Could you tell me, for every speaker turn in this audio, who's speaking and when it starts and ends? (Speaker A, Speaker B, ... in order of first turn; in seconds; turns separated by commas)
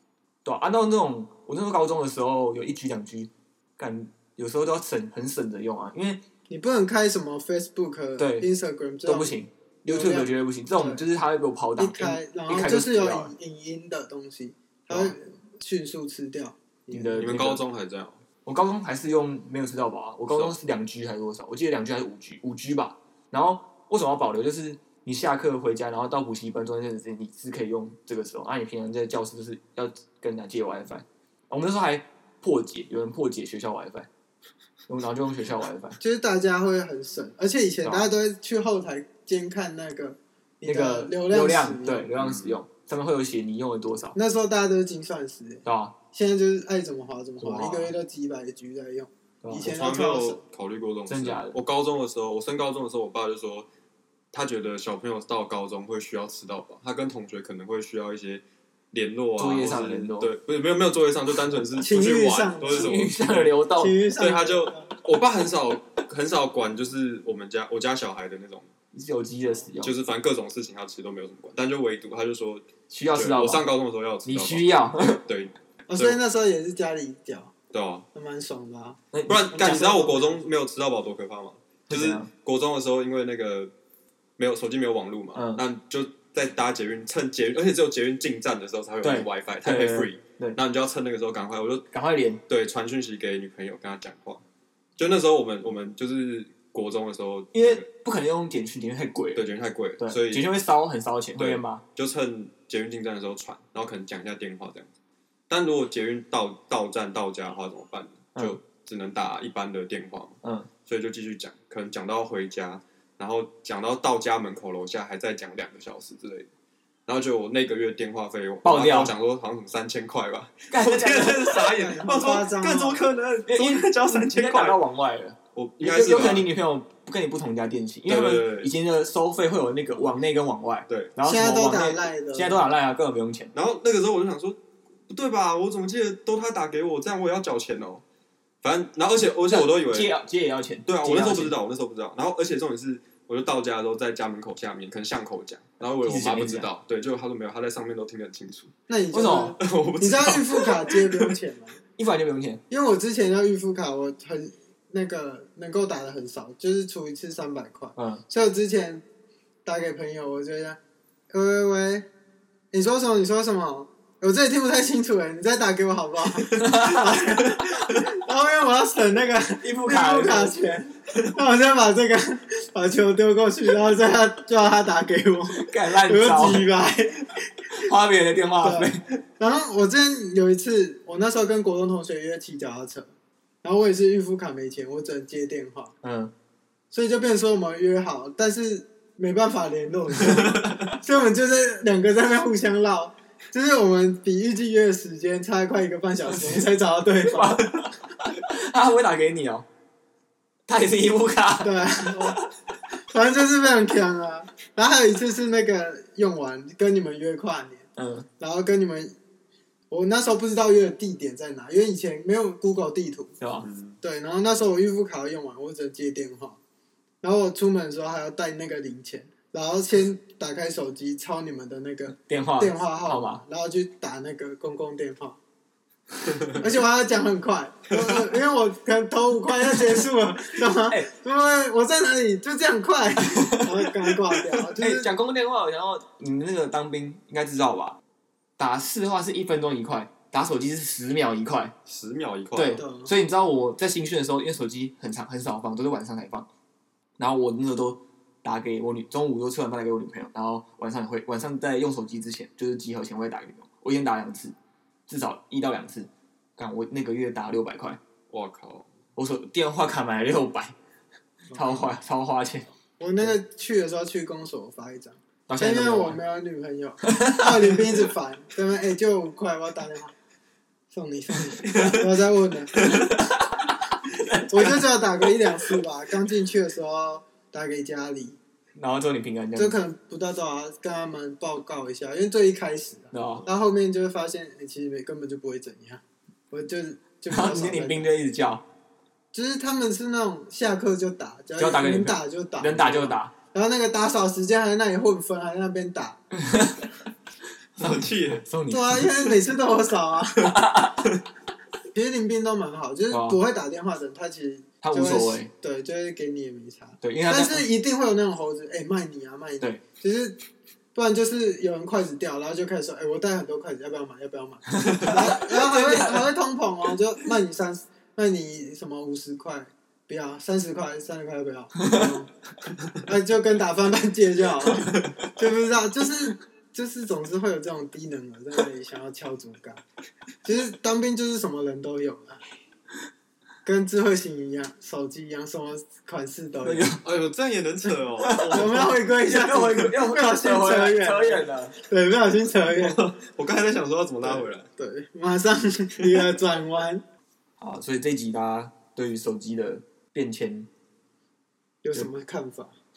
Speaker A: 0.4-6.2, Speaker B: 6.5-9.3, Speaker A: 8.2-8.5, Speaker A: 9.1-13.3, Speaker B: 9.9-11.0, Speaker B: 11.8-17.4, Speaker A: 14.9-15.2, Speaker A: 16.9-17.6, Speaker C: 17.2-18.2, Speaker A: 18.4-34.1, Speaker C: 20.3-20.6, Speaker A: 34.9-36.0, Speaker B: 36.0-42.1, Speaker A: 37.8-38.1, Speaker A: 40.6-44.2, Speaker C: 42.2-42.6, Speaker B: 44.1-50.4, Speaker A: 45.6-45.9, Speaker A: 47.4-47.9, Speaker A: 49.4-49.7, Speaker C: 49.6-53.7, Speaker A: 51.1-51.6, Speaker C: 54.3-63.5, Speaker A: 59.4-60.3, Speaker B: 61.8-63.0, Speaker A: 62.6-64.0, Speaker B: 63.8-64.9, Speaker C: 64.2-68.7, Speaker A: 68.9-69.9, Speaker C: 69.8-74.7, Speaker A: 72.9-73.7, Speaker A: 74.2-75.2, Speaker C: 75.2-76.2, Speaker B: 75.9-77.5, Speaker C: 77.7-78.1, Speaker B: 78.1-80.4, Speaker A: 79.1-79.8, Speaker C: 79.3-83.7, Speaker A: 81.9-82.3, Speaker C: 84.4-91.9, Speaker A: 85.3-85.6, Speaker A: 89.0-90.6, Speaker A: 91.9-92.4, Speaker C: 92.5-94.4, Speaker C: 95.0-97.8, Speaker A: 97.5-99.4, Speaker C: 99.3-100.5, Speaker A: 100.0-101.8, Speaker C: 101.4-104.9, Speaker C: 105.5-116.5, Speaker A: 110.4-110.7, Speaker C: 117.0-124.8, Speaker A: 118.6-119.1, Speaker A: 120.7-121.6, Speaker B: 121.3-123.1, Speaker A: 123.5-133.5, Speaker C: 125.5-126.5, Speaker C: 128.1-128.7, Speaker B: 131.2-132.6, Speaker C: 133.5-138.0, Speaker C: 138.6-140.1, Speaker A: 139.5-141.6, Speaker C: 140.8-148.7, Speaker A: 146.0-146.7, Speaker B: 148.9-151.8, Speaker A: 149.1-149.6, Speaker C: 149.6-151.3, Speaker A: 152.0-152.6, Speaker B: 152.7-159.0, Speaker A: 157.9-158.2, Speaker B: 159.6-160.8, Speaker B: 161.3-162.1, Speaker B: 162.7-177.9, Speaker A: 166.6-167.1, Speaker A: 169.6-170.6, Speaker A: 175.5-176.7, Speaker A: 177.8-179.0, Speaker B: 178.6-183.1, Speaker B: 183.6-185.9, Speaker A: 186.0-186.3, Speaker B: 186.9-197.8, Speaker A: 190.6-190.9, Speaker A: 196.2-199.7, Speaker A: 200.7-202.4, Speaker B: 201.6-202.4, Speaker B: 203.1-207.9, Speaker A: 207.9-208.3, Speaker B: 208.4-209.1, Speaker B: 209.9-213.4, Speaker A: 213.4-213.7, Speaker C: 213.6-214.0, Speaker B: 214.0-216.6, Speaker B: 217.2-225.4, Speaker A: 222.1-223.4, Speaker B: 226.6-235.1, Speaker A: 233.2-233.7, Speaker A: 234.8-238.0, Speaker A: 238.6-241.7, Speaker C: 241.8-242.8, Speaker A: 242.5-246.5, Speaker B: 242.8-243.1, Speaker A: 247.2-254.5, Speaker A: 255.1-258.0, Speaker C: 258.3-258.9, Speaker A: 259.1-260.7, Speaker B: 261.5-261.9, Speaker A: 261.5-263.3, Speaker B: 263.0-270.1, Speaker A: 265.5-266.2, Speaker A: 267.0-268.0, Speaker B: 270.9-272.8, Speaker A: 272.8-274.8, Speaker B: 274.5-278.4, Speaker A: 278.8-279.8, Speaker B: 279.6-288.1, Speaker A: 283.1-283.5, Speaker A: 287.3-288.6, Speaker B: 289.3-296.2, Speaker A: 291.6-293.3, Speaker A: 296.3-296.9, Speaker C: 297.8-298.4, Speaker A: 297.8-299.3, Speaker B: 298.7-300.8, Speaker A: 300.4-301.0, Speaker B: 301.9-310.4, Speaker A: 303.1-303.4, Speaker A: 304.8-305.5, Speaker A: 307.0-307.6, Speaker B: 310.9-322.3, Speaker A: 314.7-316.2, Speaker A: 321.8-322.1, Speaker B: 323.0-329.8, Speaker B: 330.4-332.4, Speaker B: 333.6-336.9, Speaker A: 336.6-337.0, Speaker C: 337.0-338.9, Speaker A: 338.2-341.8, Speaker B: 338.5-343.0, Speaker C: 342.7-344.7, Speaker B: 344.2-347.0, Speaker C: 346.0-346.3, Speaker A: 347.6-350.7, Speaker B: 351.8-352.8